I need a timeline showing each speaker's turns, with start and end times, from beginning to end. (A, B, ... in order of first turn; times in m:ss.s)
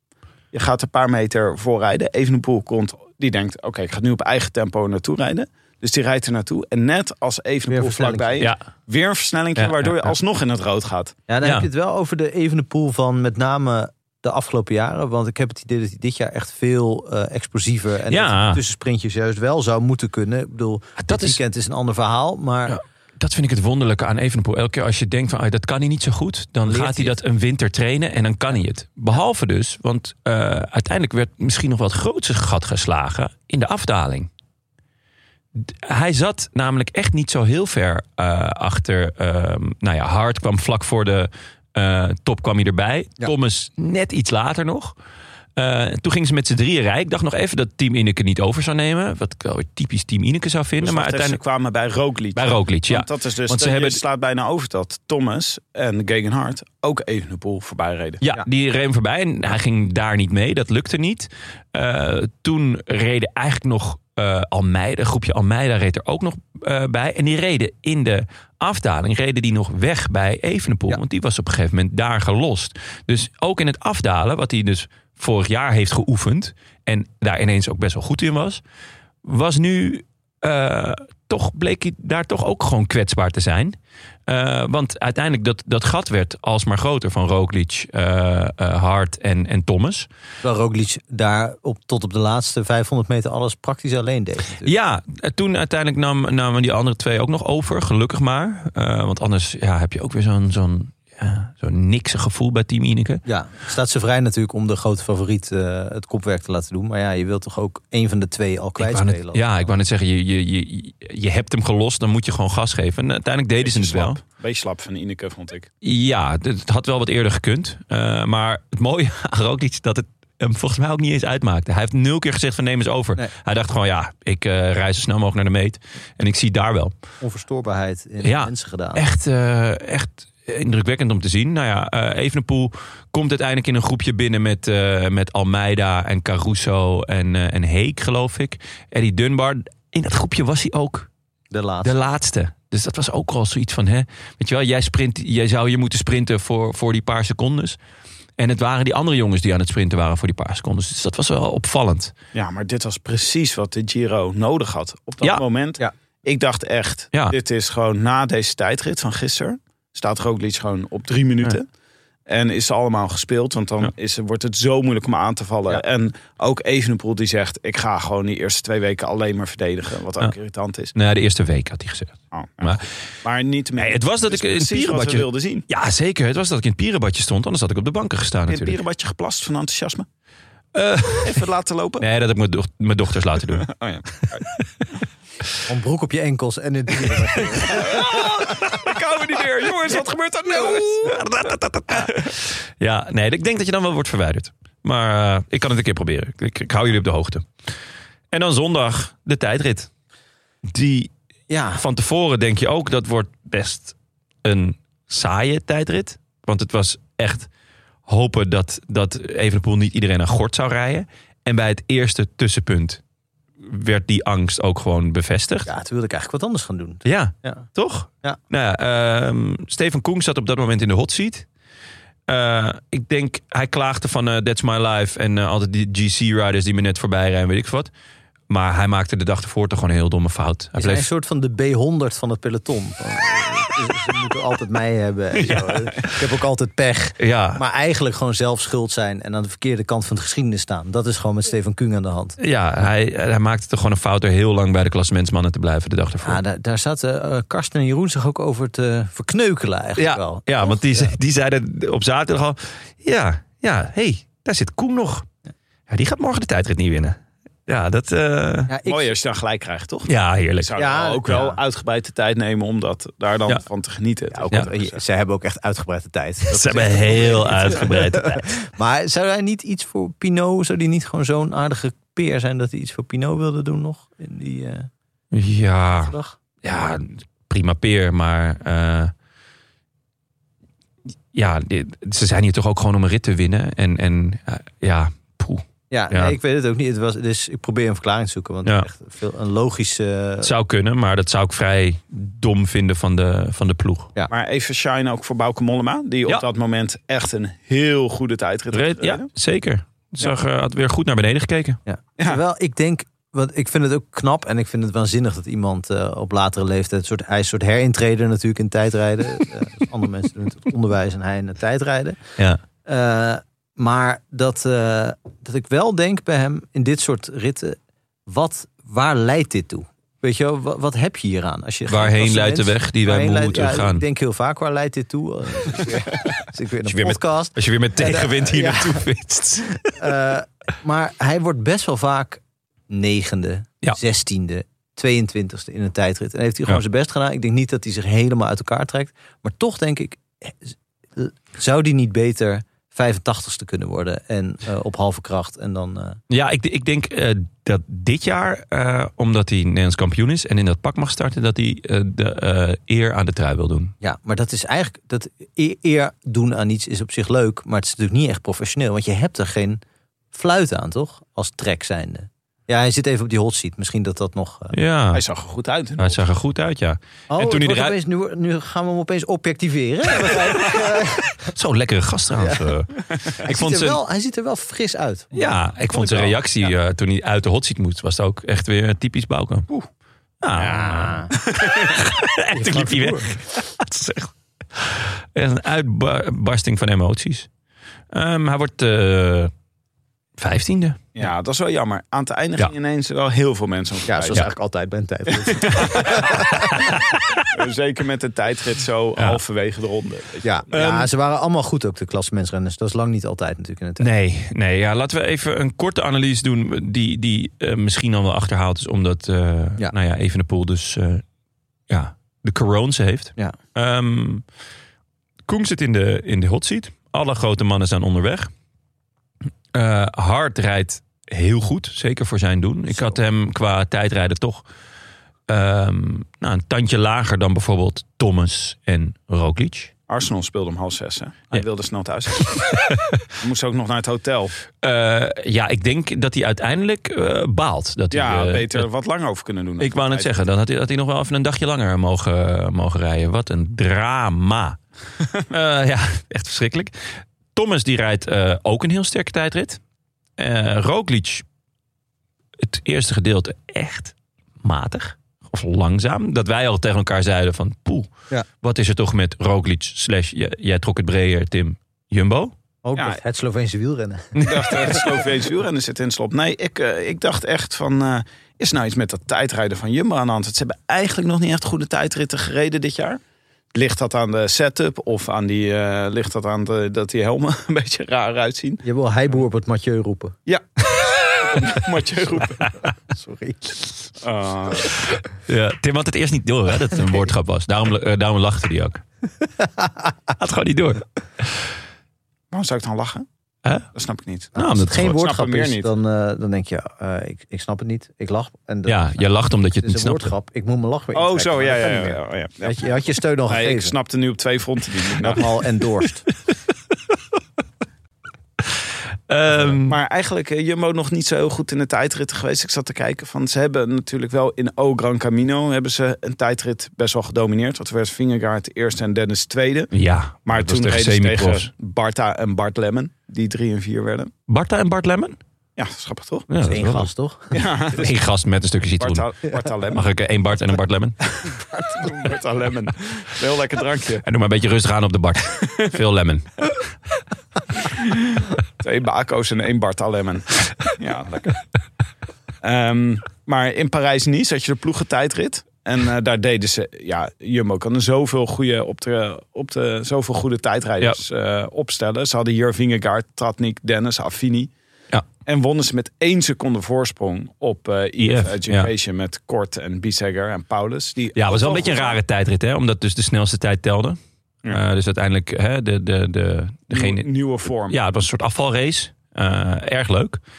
0:00.5-0:11.2 A
0:07.7-0:08.5 B
0:09.6-0:10.1 C
0:11.3-0:22.8 B
0:11.4-0:11.7 C
0:18.1-0:18.6 C
0:21.0-0:21.4 C
0:22.7-0:34.3 C
0:26.6-0:27.2 B
0:35.6-0:45.0 C
0:45.6-0:51.4 C
0:50.8-0:58.2 A
0:52.4-0:54.0 C
0:58.2-1:18.6 C
1:19.2-1:23.8 C
1:24.3-1:30.1 C
1:30.4-1:34.7 B
1:34.6-1:43.2 C
1:43.3-1:49.4 B
1:48.8-1:54.2 C
1:53.6-1:55.7 A
1:55.8-2:06.9 C
2:07.2-2:09.0 B
2:08.2-2:21.1 C
2:21.5-2:21.9 B
2:21.8-2:27.8 C
2:28.4-2:32.1 C
2:32.3-2:41.7 A
2:42.3-2:50.9 A
2:51.0-2:52.9 C
2:52.3-2:55.7 A
2:53.8-2:58.8 C
2:58.5-3:00.1 A
3:00.7-3:01.4 C
3:01.2-3:02.1 A
3:02.0-3:03.7 C
3:03.6-3:04.4 A
3:05.7-3:08.7 B
3:07.7-3:11.2 A
3:10.6-3:17.5 C
3:18.3-3:19.9 C
3:20.7-3:21.1 C
3:21.5-3:21.8 B
3:21.8-3:27.5 C
3:28.1-3:33.0 C
3:33.6-3:35.7 C
3:35.7-3:37.7 B
3:37.0-3:41.5 C
3:42.3-3:47.9 C
3:48.5-3:51.1 C
3:50.8-4:02.4 B
3:55.4-3:56.2 C
3:57.2-3:57.6 C
4:02.4-4:06.4 C
4:06.2-4:11.2 B
4:10.0-4:15.3 C
4:15.9-4:18.8 C
4:18.7-4:19.1 B
4:18.8-4:25.0 A
4:20.1-4:20.8 C
4:20.8-4:21.6 B
4:24.3-4:34.9 B
4:26.5-4:28.5 C
4:35.3-4:39.1 C
4:36.1-4:36.4 B
4:41.3-4:46.4 C
4:45.9-4:50.5 B
4:50.4-4:54.1 C
4:54.3-4:59.3 A
4:58.7-5:01.8 C
5:01.9-5:12.2 B
5:12.9-5:29.1 B
5:21.9-5:24.0 C
5:26.9-5:30.0 C
5:29.9-5:46.2 B
5:46.3-5:53.9 C
5:54.0-5:59.8 B
6:00.3-6:04.8 B
6:04.7-6:05.2 C
6:05.1-6:06.2 A
6:06.0-6:08.0 C
6:07.3-6:11.5 B
6:11.4-6:14.0 C
6:12.4-6:12.7 B
6:13.4-6:15.6 B
6:15.3-6:19.7 C
6:16.0-6:16.4 A
6:20.4-6:27.5 C
6:20.6-6:21.3 B
6:21.5-6:21.9 A
6:22.5-6:23.4 B
6:28.1-6:29.5 C
6:30.4-6:31.0 C
6:31.2-6:34.5 A
6:34.1-6:37.0 B
6:35.3-6:36.5 A
6:37.0-6:37.4 C
6:37.5-6:40.5 A
6:40.4-6:44.1 B
6:40.7-6:41.1 C
6:44.0-6:51.2 C
6:51.9-6:54.4 C
6:55.5-6:58.5 C
6:59.7-7:04.6 C
7:05.5-7:09.9 C
7:10.1-7:12.7 A
7:12.9-7:13.2 C
7:13.4-7:14.6 A
7:14.8-7:18.9 C
7:18.1-7:20.3 A
7:19.8-7:24.8 C
7:25.5-7:29.8 C
7:30.4-7:31.4 C
7:32.6-7:38.1 C
7:38.6-7:42.5 C
7:42.8-7:45.0 B
7:44.4-7:44.6 C
7:44.4-7:53.2 A
7:53.7-7:58.8 A
7:58.8-8:00.4 B
8:01.3-8:02.7 A
8:03.1-8:03.9 B
8:04.2-8:05.0 A
8:04.9-8:09.0 C
8:10.4-8:11.7 C
8:12.5-8:13.3 A
8:13.9-8:15.9 A
8:14.6-8:15.2 C
8:14.6-8:19.0 B
8:18.9-8:20.3 C
8:19.8-8:24.0 B
8:21.2-8:22.9 A
8:23.5-8:25.4 A
8:25.2-8:26.2 B
8:29.3-8:30.0 C
8:29.5-8:29.8 B
8:29.9-8:39.9 A
8:39.9-8:41.7 C
8:40.5-8:44.3 A
8:44.5-8:45.4 C
8:45.8-8:46.5 A
8:46.5-8:47.1 C
8:46.6-8:47.6 B
8:47.5-8:48.1 A
8:47.9-8:49.3 C
8:49.0-8:50.1 A
8:49.9-8:51.2 C
8:51.4-8:54.2 A
8:54.2-8:56.7 C
8:55.6-8:55.9 A
8:57.8-9:01.6 A
9:02.6-9:14.7 A
9:15.4-9:22.2 A
9:18.2-9:18.9 C
9:21.4-9:27.3 C
9:26.9-9:28.0 A
9:27.9-9:30.4 C